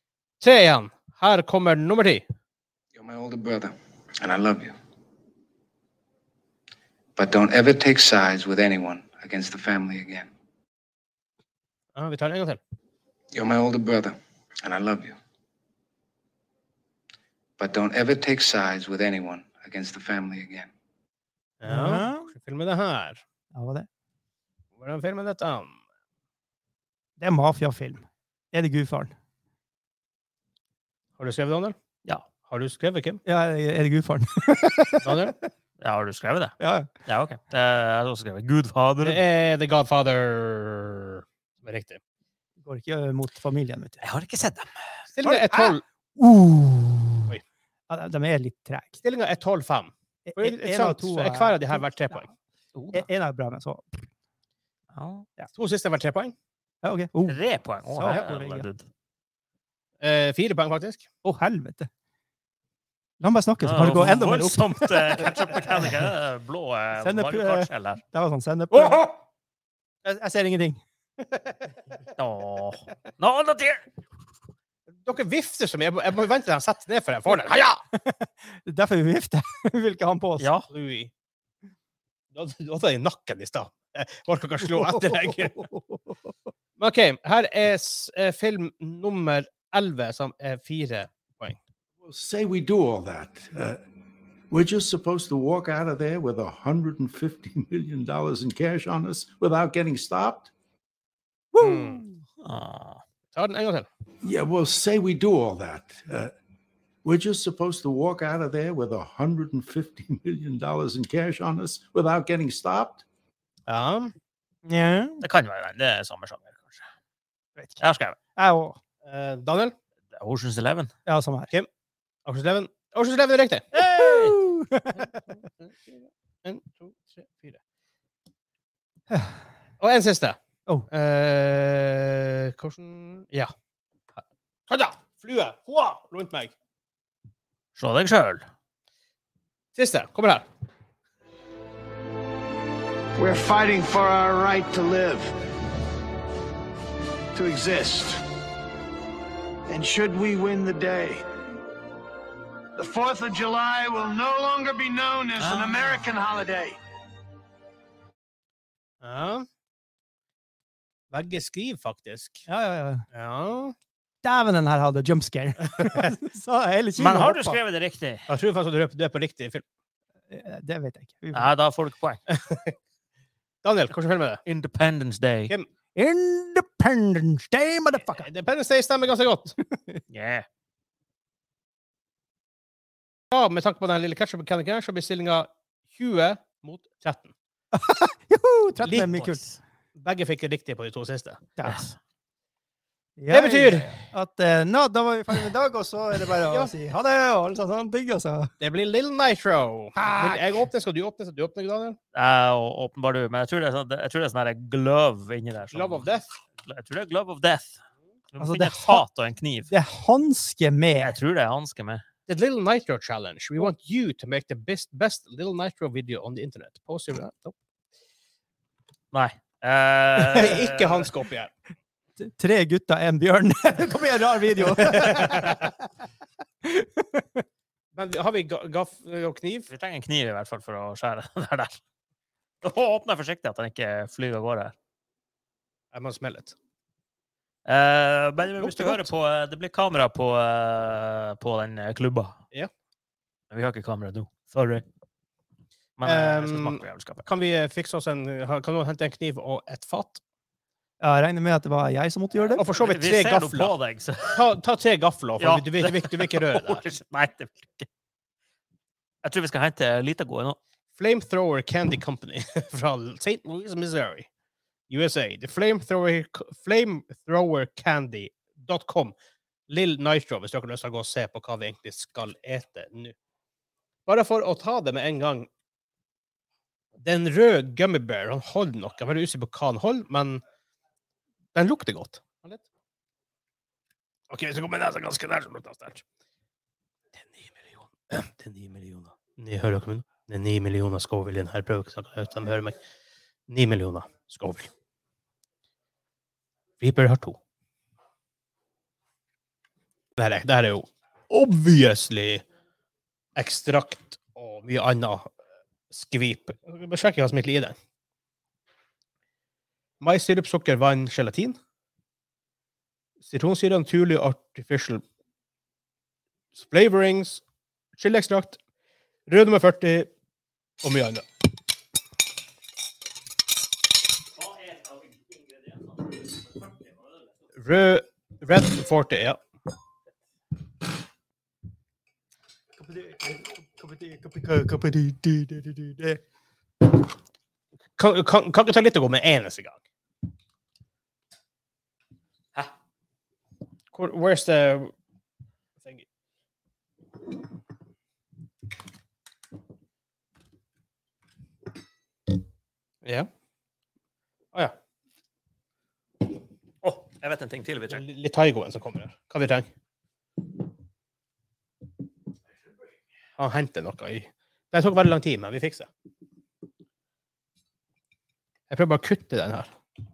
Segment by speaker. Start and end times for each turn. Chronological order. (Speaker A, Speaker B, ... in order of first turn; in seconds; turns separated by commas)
Speaker A: 0.4-2.2, Speaker B: 2.9-4.8, Speaker B: 7.2-10.3, Speaker A: 12.0-12.6, Speaker B: 13.3-15.2, Speaker B: 17.6-20.7, Speaker A: 21.6-23.2, Speaker C: 21.7-22.3, Speaker C: 23.5-23.9, Speaker A: 24.8-25.8, Speaker C: 27.2-29.1, Speaker A: 31.2-31.8, Speaker A: 32.5-33.2, Speaker C: 33.2-35.3, Speaker A: 35.0-35.4, Speaker D: 35.8-36.5, Speaker C: 36.6-36.9, Speaker D: 37.1-39.2, Speaker A: 39.0-42.0, Speaker C: 42.6-44.0, Speaker D: 44.0-44.7, Speaker A: 45.1-45.8, Speaker C: 45.2-47.3, Speaker C: 47.9-49.0, Speaker A: 49.0-52.3, Speaker C: 50.3-52.3, Speaker D: 52.8-53.0, Speaker C: 52.9-54.0, Speaker D: 54.9-55.3, Speaker A: 55.5-56.4, Speaker C: 56.8-57.4, Speaker D: 57.2-58.8, Speaker C: 57.9-58.7, Speaker A: 60.0-61.1, Speaker C: 61.2-61.9, Speaker C: 63.2-66.1, Speaker D: 63.6-68.0, Speaker C: 67.0-69.1, Speaker A: 68.7-69.1, Speaker C: 70.0-70.8, Speaker D: 72.2-73.9, Speaker A: 75.0-77.8, Speaker C: 77.9-80.5, Speaker D: 80.4-80.7, Speaker A: 80.7-81.1, Speaker A: 82.3-85.7, Speaker C: 84.6-86.3, Speaker A: 86.8-91.6, Speaker E: 92.0-93.8, Speaker E: 94.5-100.5, Speaker C: 101.5-102.2, Speaker A: 101.6-102.0, Speaker D: 102.4-103.0, Speaker A: 103.3-103.9, Speaker E: 104.2-106.3, Speaker E: 107.0-113.0, Speaker A: 113.7-114.1, Speaker C: 114.7-115.2, Speaker D: 115.2-116.8, Speaker C: 117.6-117.8, Speaker D: 117.8-118.2, Speaker C: 118.4-118.8, Speaker A: 119.0-119.8, Speaker D: 120.2-120.9, Speaker C: 121.1-121.5, Speaker A: 122.3-123.7, Speaker C: 123.7-125.2, Speaker A: 125.6-127.6, Speaker C: 129.1-129.4, Speaker A: 129.8-130.4, Speaker A: 130.9-133.5, Speaker A: 134.2-136.5, Speaker D: 137.8-138.5, Speaker A: 139.8-140.5, Speaker F: 143.2-145.3, Speaker F: 147.3-148.2, Speaker F: 149.7-151.2, Speaker F: 152.8-156.8, Speaker A: 159.0-159.5, Speaker A: 161.1-162.5, Speaker C: 162.5-163.0, Speaker A: 163.1-163.8, Speaker C: 164.2-167.6, Speaker A: 165.7-166.1, Speaker D: 167.0-168.3, Speaker A: 168.3-169.6, Speaker C: 170.3-171.5, Speaker D: 171.3-172.2, Speaker A: 172.3-172.8, Speaker A: 173.6-174.4, Speaker D: 174.5-175.6, Speaker C: 175.9-178.3, Speaker A: 178.2-179.6, Speaker C: 179.7-180.0, Speaker D: 180.1-180.5, Speaker A: 183.3-187.3, Speaker C: 187.7-189.4, Speaker A: 188.8-189.1, Speaker D: 189.0-189.6, Speaker A: 189.9-191.4, Speaker C: 191.6-191.9, Speaker D: 191.6-191.9, Speaker C: 193.2-198.5, Speaker A: 193.3-194.0, Speaker A: 198.6-202.0, Speaker C: 200.0-200.5, Speaker D: 202.1-206.1, Speaker A: 205.7-206.3, Speaker D: 206.6-207.8, Speaker D: 208.3-209.7, Speaker C: 208.4-209.1, Speaker C: 209.7-211.1, Speaker D: 211.0-212.0, Speaker A: 212.3-217.5, Speaker D: 219.1-221.1, Speaker A: 220.3-221.5, Speaker C: 222.2-225.7, Speaker A: 224.7-225.7, Speaker C: 226.6-227.4, Speaker A: 227.9-229.7, Speaker D: 229.7-231.8, Speaker D: 232.6-234.8, Speaker A: 235.9-236.6, Speaker D: 237.7-242.4, Speaker A: 238.6-239.1, Speaker D: 243.5-244.8, Speaker D: 246.0-247.2, Speaker A: 246.1-250.2, Speaker C: 251.0-252.6, Speaker A: 252.6-253.7, Speaker D: 252.8-254.4, Speaker A: 254.3-256.8, Speaker D: 255.4-257.9, Speaker D: 259.2-260.6, Speaker A: 261.0-264.3, Speaker A: 264.9-269.1, Speaker A: 269.7-273.1, Speaker A: 274.1-275.5, Speaker A: 277.0-280.4, Speaker A: 281.6-282.6, Speaker A: 284.3-286.0, Speaker A: 287.1-292.8, Speaker A: 293.5-294.7, Speaker A: 296.8-297.4, Speaker A: 300.2-302.4, Speaker A: 303.4-305.3, Speaker A: 305.9-307.8, Speaker A: 310.0-311.6, Speaker A: 313.2-315.0, Speaker A: 316.6-317.4, Speaker A: 318.0-318.6, Speaker A: 319.3-320.1, Speaker A: 320.8-321.2, Speaker D: 324.4-326.7, Speaker A: 327.6-329.4, Speaker C: 332.8-336.2, Speaker A: 338.0-339.8, Speaker A: 343.9-344.9, Speaker A: 353.0-353.3, Speaker D: 356.8-358.0, Speaker A: 357.9-359.7, Speaker A: 363.4-365.9, Speaker A: 368.7-369.7